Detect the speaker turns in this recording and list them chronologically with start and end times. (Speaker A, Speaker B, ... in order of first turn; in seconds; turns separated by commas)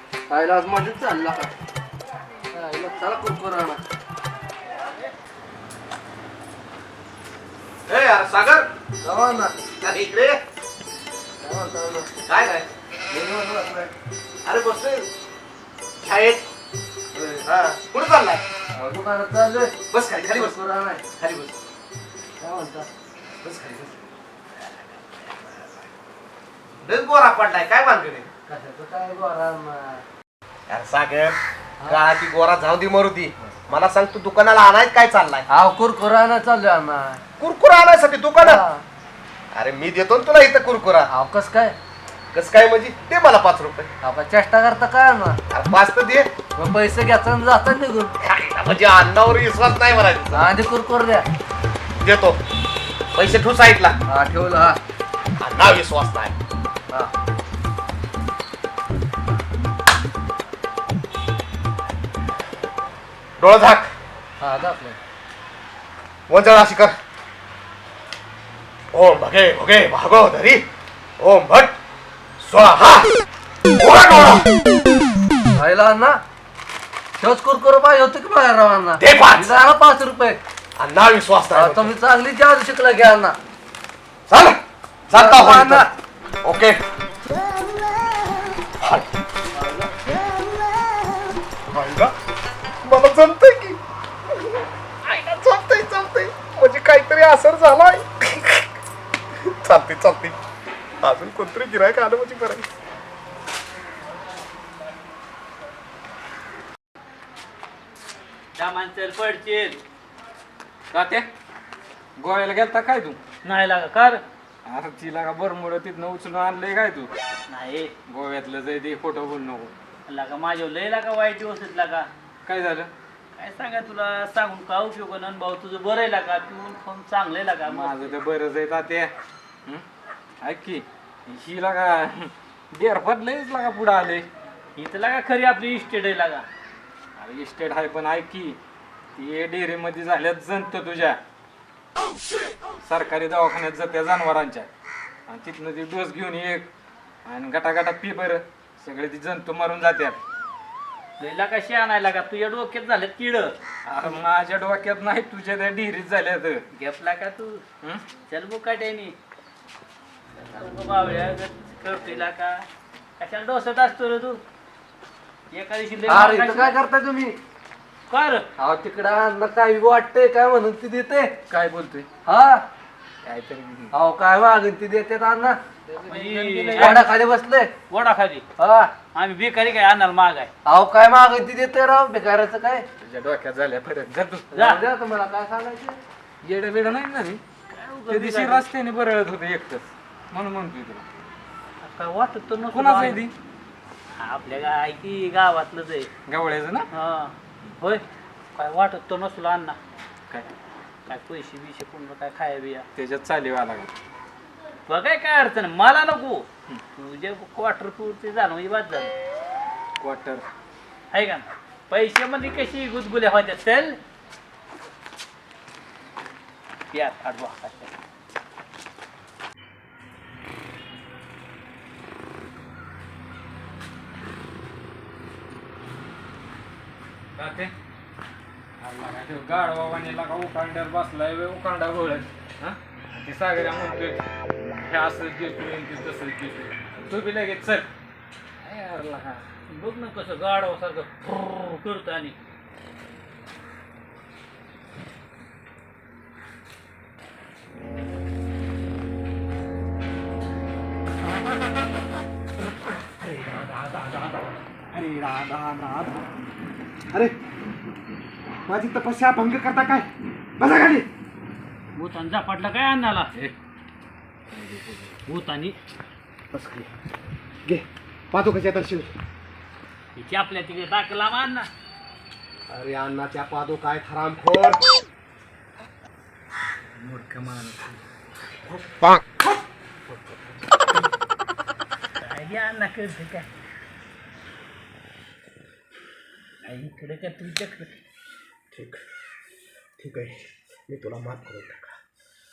Speaker A: 0.3-1.5, Speaker A: 2.5-3.8, Speaker B: 7.9-8.7, Speaker A: 9.0-9.6, Speaker B: 9.8-10.4, Speaker A: 11.4-12.2, Speaker B: 12.2-12.7, Speaker A: 13.1-13.9, Speaker B: 14.4-15.1, Speaker B: 16.0-16.5, Speaker B: 17.3-18.4, Speaker A: 18.7-19.8, Speaker B: 19.9-20.6, Speaker A: 20.3-21.6, Speaker A: 22.4-22.9, Speaker B: 23.4-23.9, Speaker B: 26.8-28.3, Speaker A: 28.5-30.0, Speaker B: 30.7-35.5, Speaker A: 35.5-37.2, Speaker B: 37.4-38.6, Speaker A: 38.4-38.9, Speaker B: 39.5-41.1, Speaker A: 41.1-41.8, Speaker B: 42.3-43.9, Speaker A: 44.0-45.4, Speaker B: 45.5-46.3, Speaker A: 46.5-48.1, Speaker B: 48.2-50.5, Speaker A: 50.3-51.3, Speaker B: 52.0-52.4, Speaker B: 53.1-54.0, Speaker A: 54.1-54.8, Speaker B: 55.4-56.4, Speaker B: 63.4-63.9, Speaker A: 64.4-65.0, Speaker B: 66.3-67.0, Speaker B: 68.9-70.7, Speaker B: 71.2-71.8, Speaker B: 72.4-73.1, Speaker B: 73.8-74.5, Speaker A: 75.5-76.2, Speaker A: 77.2-80.4, Speaker B: 79.0-79.6, Speaker B: 80.8-81.9, Speaker A: 81.5-83.4, Speaker B: 84.3-85.9, Speaker A: 85.1-85.9, Speaker B: 86.4-86.8, Speaker B: 88.8-89.1, Speaker A: 89.5-90.0, Speaker B: 91.7-92.1, Speaker B: 92.8-93.8, Speaker B: 94.4-98.7, Speaker B: 99.4-100.4, Speaker B: 101.0-102.7, Speaker C: 108.5-109.8, Speaker D: 110.9-111.3, Speaker D: 112.2-113.2, Speaker C: 113.4-114.2, Speaker D: 114.7-117.1, Speaker C: 117.5-117.9, Speaker D: 118.1-119.7, Speaker C: 120.1-122.1, Speaker D: 122.5-122.9, Speaker C: 123.3-128.2, Speaker D: 127.6-129.1, Speaker D: 130.4-134.3, Speaker C: 134.8-136.4, Speaker D: 137.2-138.6, Speaker D: 139.1-141.2, Speaker D: 142.8-144.7, Speaker D: 145.3-146.7, Speaker D: 147.2-150.2, Speaker C: 151.2-153.5, Speaker D: 153.9-156.6, Speaker C: 156.7-157.6, Speaker C: 158.3-159.2, Speaker C: 160.5-162.7, Speaker C: 163.2-164.4, Speaker C: 165.5-166.8, Speaker A: 166.1-167.4, Speaker C: 168.1-168.5, Speaker A: 168.6-171.4, Speaker D: 171.5-172.1, Speaker A: 172.3-172.7, Speaker D: 173.2-173.9, Speaker A: 173.9-176.1, Speaker D: 176.1-177.1, Speaker C: 176.1-177.1, Speaker A: 176.8-177.7, Speaker C: 177.9-178.5, Speaker A: 178.6-178.9, Speaker C: 179.1-180.5, Speaker A: 180.7-182.9, Speaker D: 183.0-184.7, Speaker A: 184.5-186.0, Speaker C: 184.6-184.8, Speaker D: 186.4-187.4, Speaker C: 187.7-188.7, Speaker D: 188.1-191.1, Speaker C: 191.8-193.2, Speaker D: 192.7-193.3, Speaker C: 194.2-196.1, Speaker D: 196.3-196.9, Speaker C: 196.9-198.0, Speaker C: 198.6-199.8, Speaker C: 201.1-202.9, Speaker D: 202.9-203.9, Speaker C: 204.9-209.1, Speaker D: 210.0-210.4, Speaker C: 211.1-214.0, Speaker C: 216.9-217.9, Speaker D: 227.4-227.7, Speaker D: 228.8-237.9, Speaker D: 238.6-239.4, Speaker C: 239.7-242.4, Speaker B: 253.0-256.2, Speaker B: 258.7-261.1, Speaker C: 261.9-263.3, Speaker D: 264.5-265.2, Speaker C: 265.3-265.8, Speaker B: 266.5-266.9, Speaker B: 267.6-269.1, Speaker C: 270.1-271.7, Speaker B: 272.7-274.8, Speaker D: 277.0-278.0, Speaker B: 278.7-280.4, Speaker C: 282.2-283.5, Speaker C: 286.6-288.0, Speaker B: 288.7-289.0, Speaker B: 290.0-292.0